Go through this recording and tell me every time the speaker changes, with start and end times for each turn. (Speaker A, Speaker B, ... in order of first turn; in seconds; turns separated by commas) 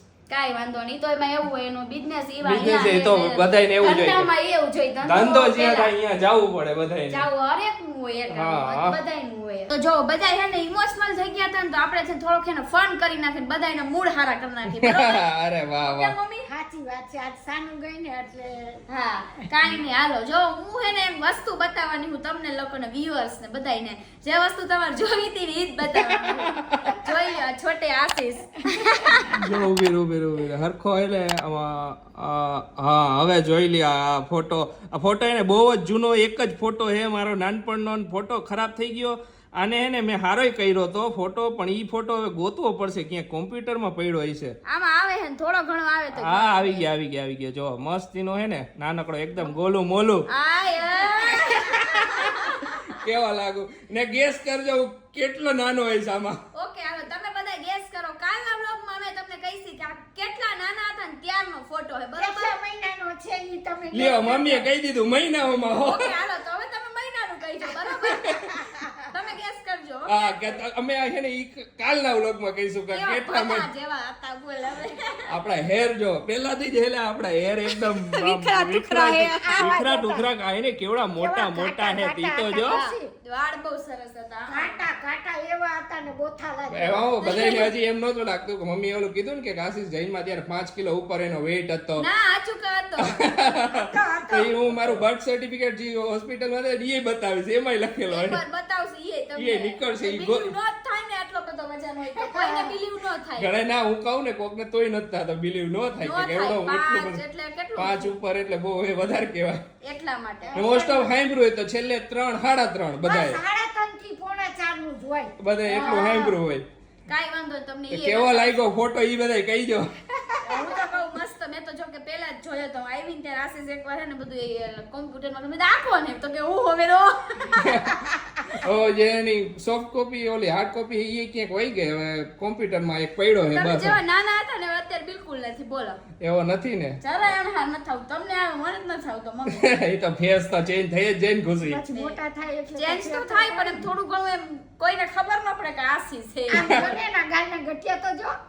Speaker A: 0.3-5.9, Speaker B: 2.4-4.2, Speaker B: 5.0-7.2, Speaker A: 7.1-15.2, Speaker B: 8.3-9.0, Speaker B: 14.8-16.1, Speaker A: 15.8-16.5, Speaker C: 16.5-18.8, Speaker A: 18.9-29.3, Speaker B: 26.2-27.0, Speaker B: 29.2-44.5, Speaker A: 44.7-46.9, Speaker B: 46.1-50.2, Speaker A: 50.3-52.9, Speaker B: 51.7-56.4, Speaker A: 56.5-62.6, Speaker C: 62.2-64.7, Speaker B: 63.9-66.1, Speaker A: 65.7-70.4, Speaker B: 70.1-73.7, Speaker A: 72.9-75.3, Speaker B: 75.3-82.8, Speaker A: 77.7-79.8, Speaker C: 79.4-80.2, Speaker C: 81.2-83.1, Speaker A: 82.7-84.8, Speaker C: 84.5-87.1, Speaker B: 86.7-92.0, Speaker A: 87.2-87.7, Speaker A: 92.0-93.3, Speaker B: 93.0-98.4, Speaker C: 93.7-95.0, Speaker A: 98.1-103.5, Speaker B: 99.3-100.5, Speaker C: 102.2-102.7, Speaker B: 103.4-107.2, Speaker A: 106.0-108.1, Speaker B: 107.8-109.6, Speaker A: 109.8-111.0, Speaker C: 110.5-111.0, Speaker B: 110.5-113.4, Speaker C: 113.0-116.3, Speaker B: 115.4-116.6, Speaker A: 115.7-116.3, Speaker A: 117.1-118.7, Speaker B: 117.9-119.9, Speaker A: 120.4-128.0, Speaker C: 120.5-120.8, Speaker B: 127.6-133.9, Speaker A: 133.5-136.0, Speaker B: 136.2-137.0, Speaker A: 137.0-139.7, Speaker B: 139.5-141.8, Speaker C: 141.7-143.8, Speaker A: 141.9-142.2, Speaker A: 142.7-147.0, Speaker C: 146.5-148.4